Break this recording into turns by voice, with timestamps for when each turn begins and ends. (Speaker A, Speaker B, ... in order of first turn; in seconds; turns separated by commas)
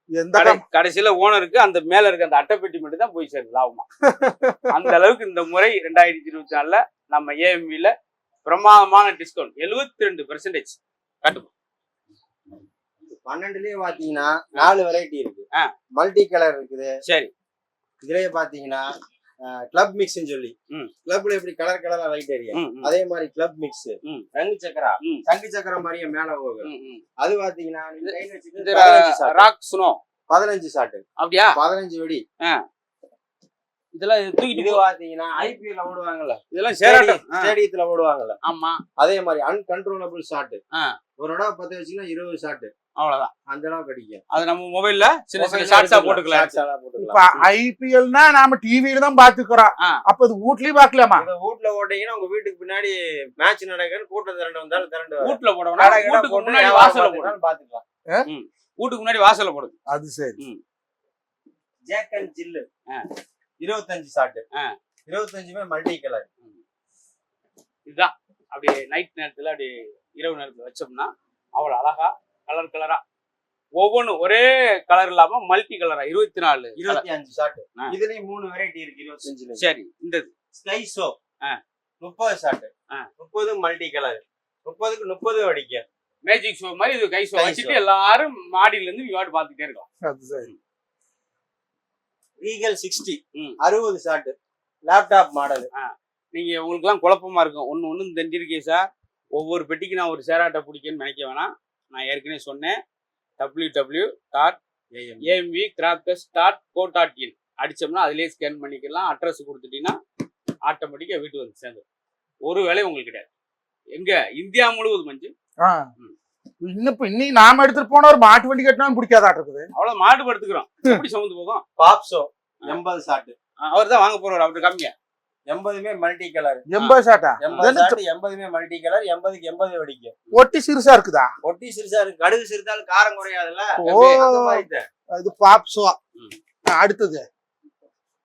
Speaker A: 0.1-0.6, Speaker B: 0.3-3.9, Speaker A: 4.0-4.9, Speaker B: 4.7-7.9, Speaker B: 8.5-11.5, Speaker C: 13.2-15.4, Speaker C: 16.0-16.9, Speaker B: 17.1-17.3, Speaker C: 18.0-18.9, Speaker C: 19.4-20.5, Speaker C: 21.1-29.4, Speaker B: 22.6-22.9, Speaker B: 26.6-27.0, Speaker B: 28.0-30.0, Speaker C: 30.3-32.2, Speaker B: 31.2-31.6, Speaker B: 34.0-34.8, Speaker C: 34.5-38.4, Speaker B: 36.5-37.5, Speaker B: 38.4-38.8, Speaker C: 39.0-40.6, Speaker C: 41.2-42.7, Speaker B: 43.0-43.3, Speaker C: 43.5-44.2, Speaker B: 44.3-46.5, Speaker C: 45.4-47.2, Speaker A: 47.0-51.3, Speaker C: 51.2-57.8, Speaker B: 55.2-57.3, Speaker B: 58.3-59.8, Speaker A: 59.9-60.4, Speaker C: 61.9-62.7, Speaker C: 63.6-64.5, Speaker C: 65.1-66.3, Speaker B: 67.9-73.0, Speaker B: 73.8-77.0, Speaker C: 76.8-79.6, Speaker B: 79.6-80.3, Speaker C: 80.5-81.2, Speaker C: 82.0-85.8, Speaker B: 86.3-89.9, Speaker C: 87.3-87.8, Speaker A: 90.0-90.5, Speaker C: 92.4-94.3, Speaker C: 94.9-95.7, Speaker B: 95.7-102.8, Speaker B: 103.4-104.6, Speaker C: 104.9-105.3, Speaker B: 105.2-110.0, Speaker B: 110.7-111.8, Speaker B: 112.5-113.3, Speaker B: 113.9-115.3, Speaker A: 115.6-115.9, Speaker A: 116.6-119.7, Speaker B: 119.8-121.7, Speaker C: 121.8-123.3, Speaker B: 123.6-124.9, Speaker C: 125.5-126.7, Speaker A: 126.7-128.0, Speaker C: 127.4-130.2, Speaker A: 130.3-131.3, Speaker C: 131.4-134.9, Speaker B: 133.8-134.2, Speaker A: 133.8-136.0, Speaker A: 136.7-137.2